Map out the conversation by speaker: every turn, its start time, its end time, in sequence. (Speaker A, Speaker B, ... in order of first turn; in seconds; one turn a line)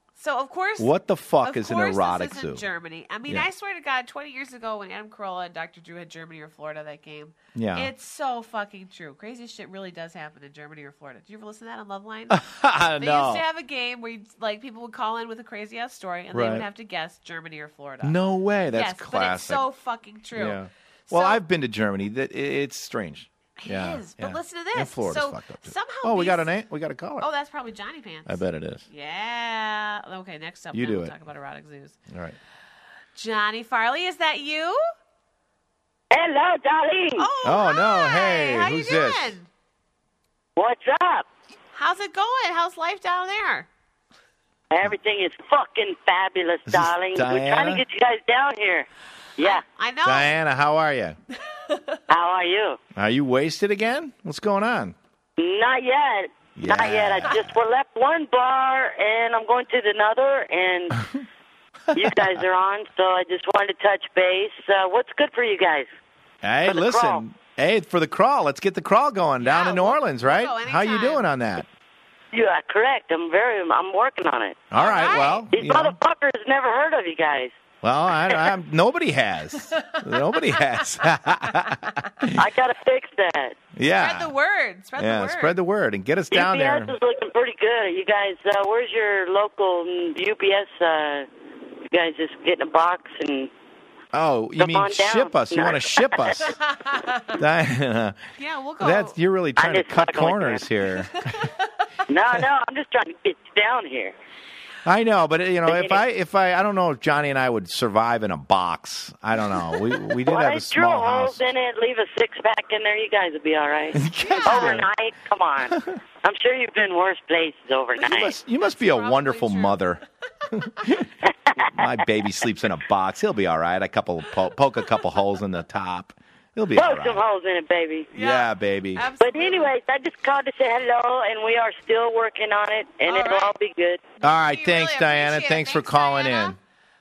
Speaker A: 0.1-12.4
Speaker B: 0.8-2.6
Speaker B: 7.5-7.9
Speaker B: 12.3-13.4
Speaker A: 13.0-18.2
Speaker B: 16.3-16.6
Speaker B: 18.0-19.6
Speaker A: 18.7-21.4
Speaker B: 20.3-27.3
Speaker A: 23.6-26.5
Speaker A: 27.2-32.0
Speaker B: 28.2-28.8
Speaker B: 30.7-31.1
Speaker B: 32.1-32.4
Speaker A: 33.1-34.8
Speaker C: 36.1-37.3
Speaker A: 37.2-39.5
Speaker B: 37.4-39.3
Speaker C: 40.5-41.3
Speaker A: 41.7-43.7
Speaker C: 44.7-48.9
Speaker B: 46.7-47.8
Speaker C: 49.4-49.6
Speaker A: 49.4-50.3
Speaker B: 50.0-51.2
Speaker A: 51.6-52.0
Speaker C: 52.1-52.8
Speaker B: 52.9-55.0
Speaker C: 55.4-61.0
Speaker B: 56.5-57.5
Speaker C: 61.9-65.9
Speaker B: 66.4-71.7
Speaker C: 66.7-67.2
Speaker A: 69.4-71.2
Speaker C: 72.3-74.7
Speaker B: 74.7-76.0
Speaker A: 74.7-75.5
Speaker C: 75.5-77.5
Speaker B: 77.8-82.3
Speaker A: 79.7-80.6
Speaker C: 82.3-83.6
Speaker B: 83.8-84.3
Speaker A: 83.9-85.6
Speaker B: 85.0-86.9
Speaker C: 86.3-91.3
Speaker C: 91.9-93.5
Speaker B: 94.1-96.6
Speaker C: 94.6-96.5
Speaker A: 96.5-97.4
Speaker B: 97.3-98.2
Speaker A: 98.4-99.2
Speaker B: 98.8-101.4
Speaker C: 99.6-100.7
Speaker A: 101.1-101.6
Speaker C: 102.1-104.1
Speaker B: 104.8-111.4
Speaker C: 105.6-106.0
Speaker C: 110.2-118.3
Speaker B: 114.0-114.9
Speaker A: 114.1-114.9
Speaker B: 118.0-121.1
Speaker A: 118.6-119.9
Speaker C: 121.5-121.9
Speaker B: 121.7-127.2
Speaker C: 126.7-128.1
Speaker A: 128.1-129.7
Speaker B: 128.1-129.1
Speaker C: 129.2-134.0
Speaker A: 133.1-133.5
Speaker A: 134.2-136.6
Speaker B: 134.2-136.6